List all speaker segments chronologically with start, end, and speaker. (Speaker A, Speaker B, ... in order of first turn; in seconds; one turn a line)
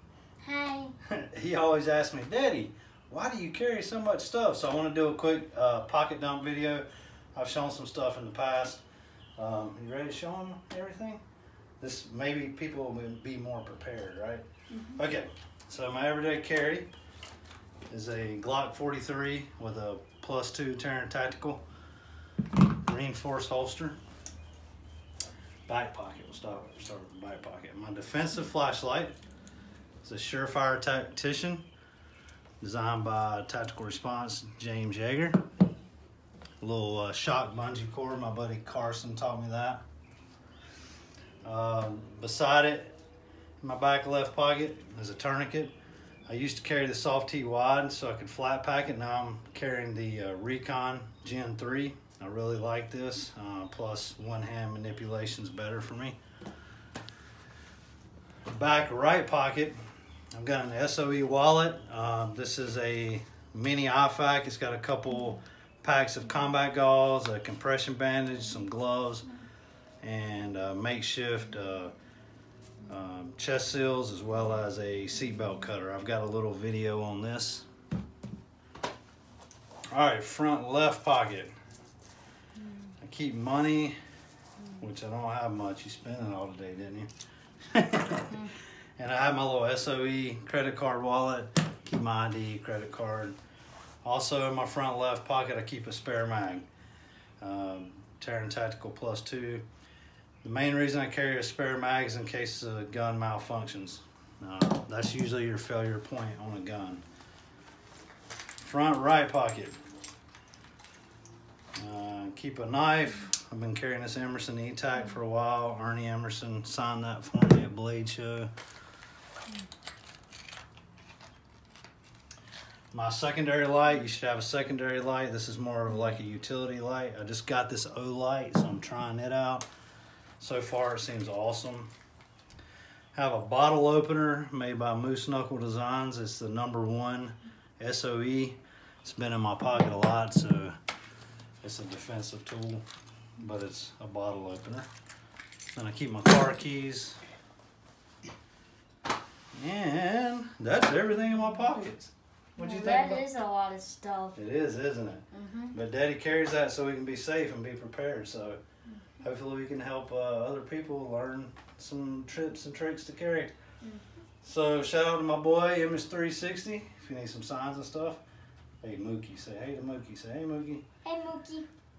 Speaker A: 0.4-0.9
Speaker B: 1.1-8.8
Speaker B: 9.4-11.2
Speaker B: 11.8-16.9
Speaker B: 17.9-21.6
Speaker B: 22.7-24.0
Speaker B: 25.7-29.1
Speaker B: 30.0-31.6
Speaker B: 32.6-35.4
Speaker B: 36.6-39.8
Speaker B: 41.4-43.0
Speaker B: 43.6-45.7
Speaker B: 46.3-56.2
Speaker B: 58.5-59.8
Speaker B: 60.3-69.3
Speaker B: 70.0-71.9
Speaker B: 72.9-77.7
Speaker B: 79.9-81.5
Speaker B: 83.0-84.0
Speaker B: 84.8-87.1
Speaker B: 87.7-93.4
Speaker B: 94.0-96.7
Speaker B: 97.4-99.7
Speaker B: 100.4-107.0
Speaker B: 108.6-109.8
Speaker B: 111.8-118.5
Speaker B: 122.9-129.7
Speaker B: 130.4-131.9
Speaker B: 133.1-140.8
Speaker B: 141.6-142.8
Speaker B: 143.4-144.9
Speaker B: 145.7-147.2
Speaker B: 149.5-153.2
Speaker A: 152.6-154.4
Speaker B: 154.3-158.6
Speaker A: 155.3-155.7
Speaker B: 159.2-163.5
Speaker B: 164.4-168.2
Speaker B: 168.8-170.8
Speaker A: 171.0-171.7